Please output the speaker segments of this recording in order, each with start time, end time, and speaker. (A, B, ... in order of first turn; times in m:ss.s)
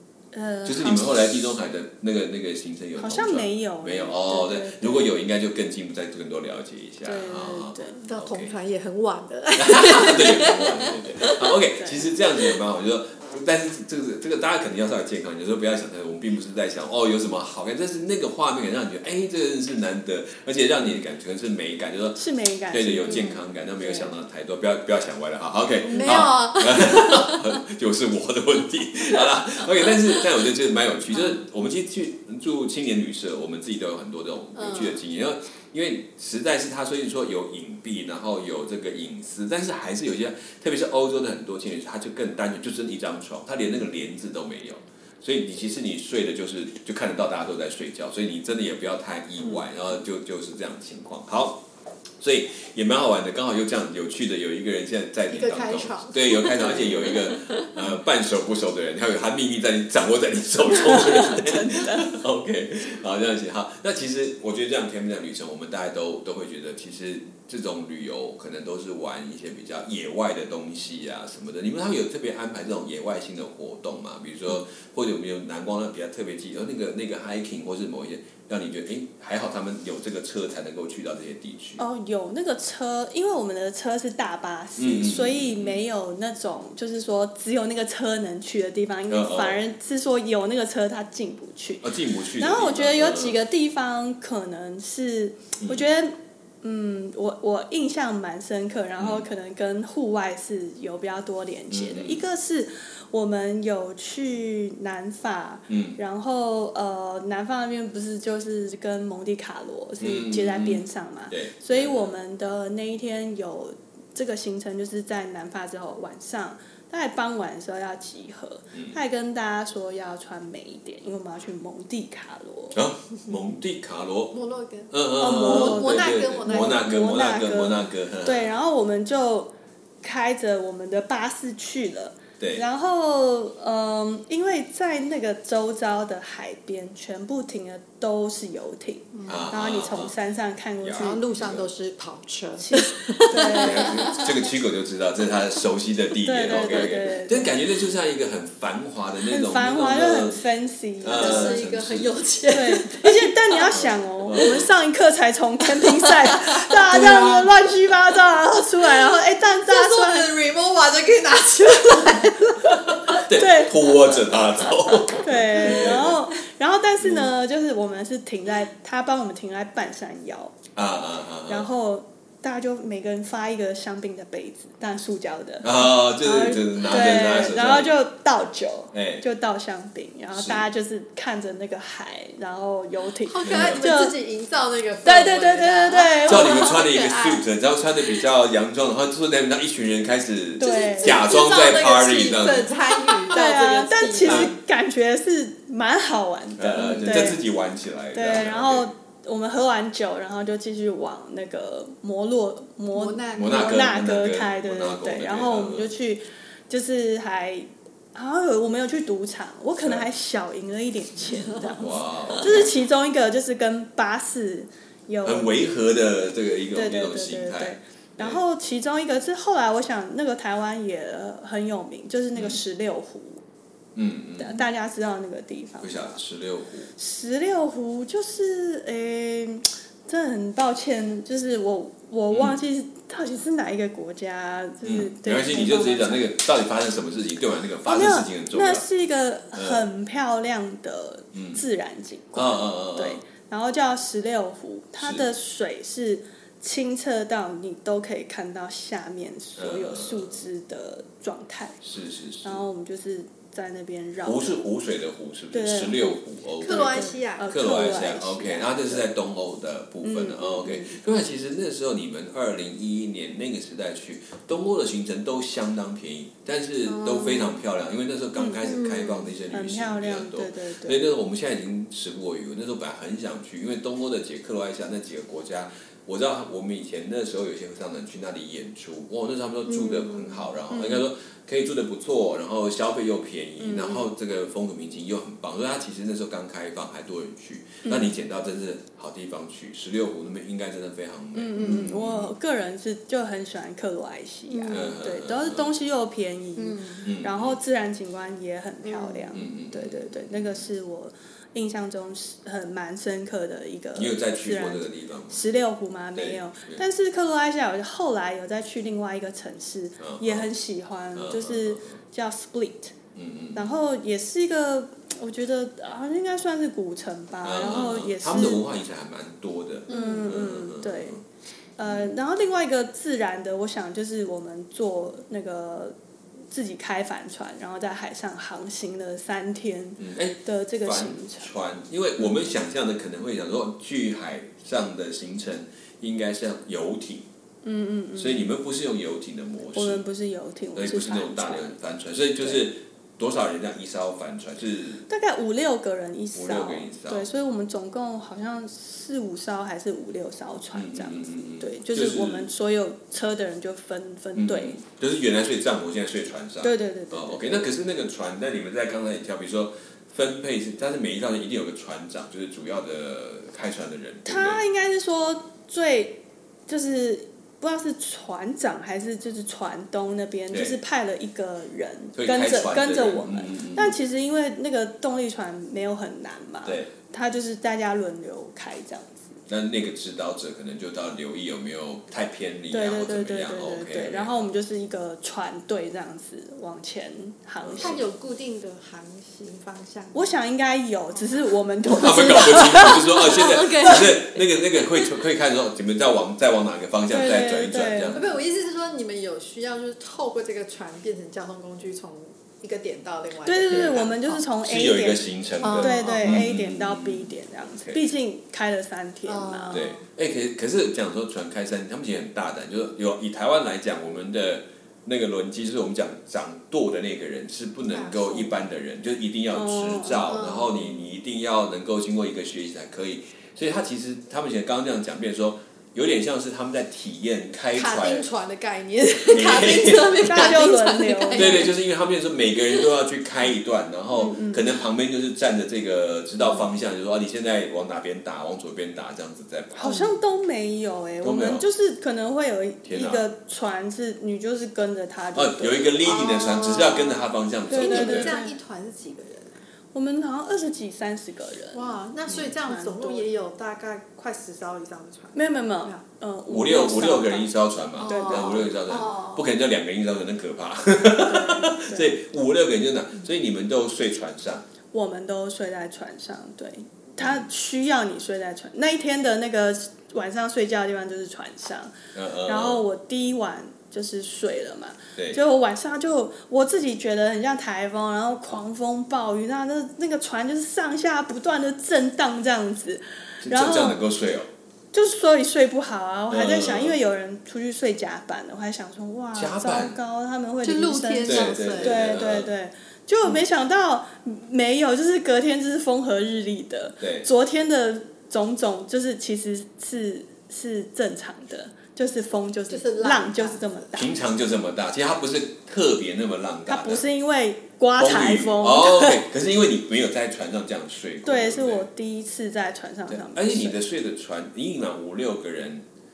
0:00.3-0:01.4 A
0:00.6-0:08.5 B
0:03.0-0:05.2 A
0:07.0-0:08.1 A
0:08.1-0:11.6 C
0:09.6-0:51.6 B
0:11.8-0:12.1 A
0:22.2-0:24.1 A
0:23.0-0:23.4 C
0:25.8-0:26.3 A
0:25.9-0:27.5 C
0:34.5-0:35.0 C
0:52.2-1:21.8 B
0:55.3-0:57.6 C
1:00.7-1:02.1 A
1:21.8-2:02.8 A
1:24.8-1:25.8 B
1:29.1-1:29.6 B
1:31.8-1:33.4 B
1:39.0-1:39.2 B
1:41.7-1:42.2 B
1:45.7-1:46.0 B
1:50.0-1:52.1 B
2:02.7-2:04.3 B
2:04.3-2:06.9 C
2:04.9-2:08.5 B
2:05.2-2:21.2 A
2:19.1-2:19.5 C
2:19.3-2:20.1 B
2:20.8-2:21.7 B
2:21.0-2:24.4 C
2:22.6-2:24.1 A
2:23.3-2:30.4 B
2:26.2-2:27.6 A
2:29.3-2:31.6 A
2:31.0-2:32.2 B
2:31.1-2:33.7 C
2:32.5-2:40.3 A
2:33.7-2:34.7 B
2:36.5-2:37.4 C
2:39.6-2:42.9 C
2:42.6-2:44.0 A
2:42.9-2:46.2 B
2:45.2-2:50.5 A
2:47.0-2:47.3 B
2:50.7-2:51.7 B
2:51.4-3:04.2 A
2:55.6-2:57.9 B
2:58.9-2:59.2 B
3:00.3-3:00.6 B
3:03.2-3:07.4 C
3:03.4-3:03.8 B
3:05.0-3:06.7 A
3:06.3-3:12.8 B
3:10.6-3:11.3 A
3:10.6-3:14.5 C
3:13.3-3:17.4 A
3:14.2-3:14.5 B
3:16.6-3:18.9 B
3:16.8-3:17.0 C
3:18.1-3:35.6 A
3:22.9-3:23.8 C
3:23.3-3:25.9 B
3:31.3-3:32.4 C
3:31.8-3:32.8 B
3:35.2-3:38.4 B
3:36.7-3:43.4 A
3:42.3-3:42.6 B
3:43.9-3:44.6 B
3:44.4-3:46.2 A
3:45.8-3:46.9 B
3:47.0-3:56.2 A
3:52.3-3:52.6 B
3:54.8-3:58.8 B
3:57.8-4:11.8 A
3:59.5-3:59.8 B
4:01.3-4:01.6 B
4:02.3-4:03.2 B
4:05.0-4:05.3 B
4:09.6-4:10.4 B
4:11.8-4:12.6 B
4:12.4-4:14.6 A
4:14.2-4:52.3 B
4:15.5-4:19.0 A
4:16.6-4:18.2 C
4:20.0-4:21.0 A
4:26.9-4:27.6 A
4:28.4-4:31.0 A
4:28.7-4:29.4 C
4:39.7-4:40.5 C
4:40.7-4:41.0 A
4:43.6-4:44.0 A
4:47.8-4:48.2 A
4:51.3-5:12.9 A
4:51.6-4:51.8 C
4:54.5-4:55.0 C
4:54.7-4:55.7 B
4:56.6-4:57.0 C
4:57.0-4:57.6 B
4:58.8-4:59.4 C
4:59.3-5:00.6 B
5:03.9-5:05.4 B
5:06.1-5:06.8 B
5:10.0-5:10.5 B
5:11.1-5:12.0 B
5:13.1-5:13.7 B
5:13.5-5:18.6 A
5:17.4-5:21.2 B
5:19.9-5:20.2 C
5:19.9-5:21.2 A
5:21.8-5:26.0 A
5:21.8-5:22.1 B
5:26.5-5:31.5 A
5:30.0-5:37.2 B
5:37.6-5:38.5 A
5:38.2-5:40.0 B
5:39.7-5:41.8 A
5:40.7-5:45.0 B
5:45.1-5:54.8 A
5:46.3-5:47.3 B
5:50.7-5:52.5 B
5:54.3-6:04.6 B
5:56.6-5:57.7 A
6:04.2-6:19.4 A
6:10.5-6:10.8 B
6:12.1-6:14.0 B
6:16.6-6:16.9 B
6:19.5-6:24.3 B
6:22.7-6:28.0 A
6:27.6-6:28.0 B
6:27.8-6:30.4 C
6:30.1-6:34.1 A
6:31.9-6:38.4 B
6:33.1-6:34.4 C
6:37.1-6:38.2 A
6:38.1-6:44.2 C
6:43.4-6:49.9 A
6:43.7-6:47.3 B
6:45.6-6:46.4 C
6:49.2-6:50.0 C
6:49.7-7:08.2 B
6:57.8-6:58.6 C
6:59.5-7:00.4 A
7:00.2-7:01.1 C
7:07.7-7:11.7 C
7:09.3-7:10.6 B
7:10.2-7:11.7 A
7:11.3-7:20.1 B
7:14.1-7:14.7 A
7:19.7-7:26.3 A
7:21.2-7:21.6 B
7:22.8-7:23.2 B
7:25.3-7:28.4 B
7:26.0-7:29.6 C
7:27.7-7:28.6 A
7:29.9-7:32.0 A
7:31.7-7:36.0 C
7:32.3-7:32.5 B
7:32.6-7:33.3 A
7:35.3-7:37.5 A
7:36.5-7:44.6 B
7:38.0-7:39.5 C
7:38.0-7:38.7 A
7:41.2-7:42.1 A
7:44.9-8:04.0 A
7:52.1-7:52.8 B
8:03.4-8:04.5 B
8:04.9-8:24.1 A
8:06.3-8:07.0 B
8:09.3-8:10.0 B
8:10.6-8:12.2 C
8:11.2-8:12.5 B
8:17.0-8:17.3 B
8:22.7-8:23.8 C
8:23.9-8:27.0 B
8:26.7-8:29.2 A
8:28.0-8:31.8 B
8:31.2-8:33.8 A
8:33.1-8:35.8 B